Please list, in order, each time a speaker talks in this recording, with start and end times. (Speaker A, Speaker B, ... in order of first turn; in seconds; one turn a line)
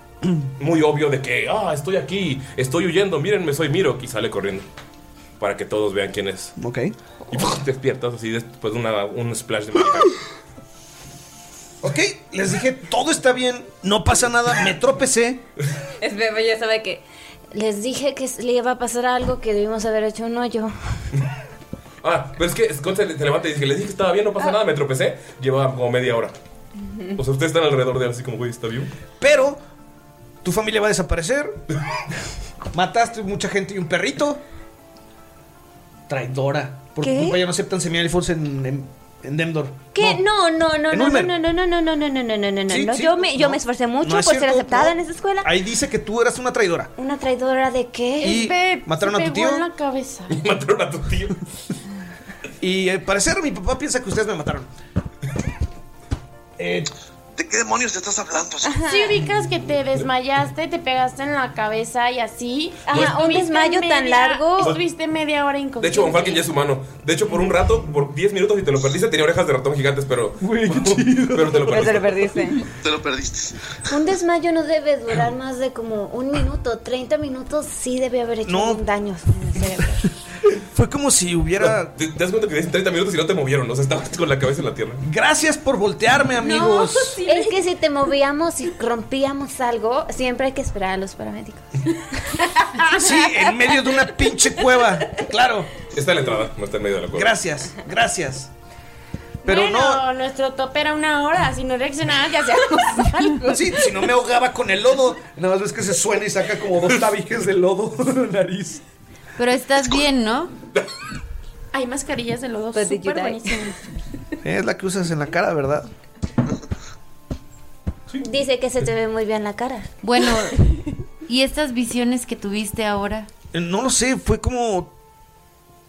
Speaker A: 0.6-4.7
Speaker A: 5.4-6.5
Speaker B: 6.6-6.9
Speaker A: 7.3-10.2
Speaker B: 11.8-15.4
Speaker C: 16.0-21.1
Speaker A: 22.0-26.3
Speaker A: 27.1-28.9
Speaker B: 29.2-29.6
Speaker B: 30.4-31.6
Speaker B: 32.7-34.4
Speaker B: 36.1-40.2
Speaker C: 37.0-37.4
Speaker C: 39.9-45.5
Speaker B: 40.9-41.3
Speaker B: 42.7-46.9
Speaker C: 47.0-48.4
Speaker D: 48.2-50.4
Speaker B: 48.2-49.6
Speaker A: 50.3-51.4
Speaker B: 52.6-54.7
Speaker B: 56.6-56.9
Speaker E: 57.4-58.8
Speaker C: 58.6-59.2
Speaker D: 58.8-66.4
Speaker C: 62.9-64.8
Speaker A: 62.9-63.3
Speaker A: 65.8-72.3
Speaker B: 70.4-71.8
Speaker C: 71.6-72.6
Speaker E: 72.8-73.5
Speaker C: 73.9-80.0
Speaker B: 78.4-78.8
Speaker B: 80.5-81.9
Speaker A: 81.6-85.0
Speaker B: 85.0-87.2
Speaker D: 86.4-87.5
Speaker C: 87.2-91.8
Speaker C: 92.8-93.1
Speaker B: 92.9-95.7
Speaker A: 95.9-97.3
Speaker B: 97.1-98.5
Speaker D: 99.4-103.9
Speaker B: 99.4-100.0
Speaker B: 103.5-108.8
Speaker F: 109.4-110.5
Speaker D: 111.7-113.8
Speaker C: 112.7-113.7
Speaker B: 114.4-115.9
Speaker C: 118.2-119.9
Speaker F: 120.0-120.6
Speaker F: 121.2-123.3
Speaker B: 123.5-124.9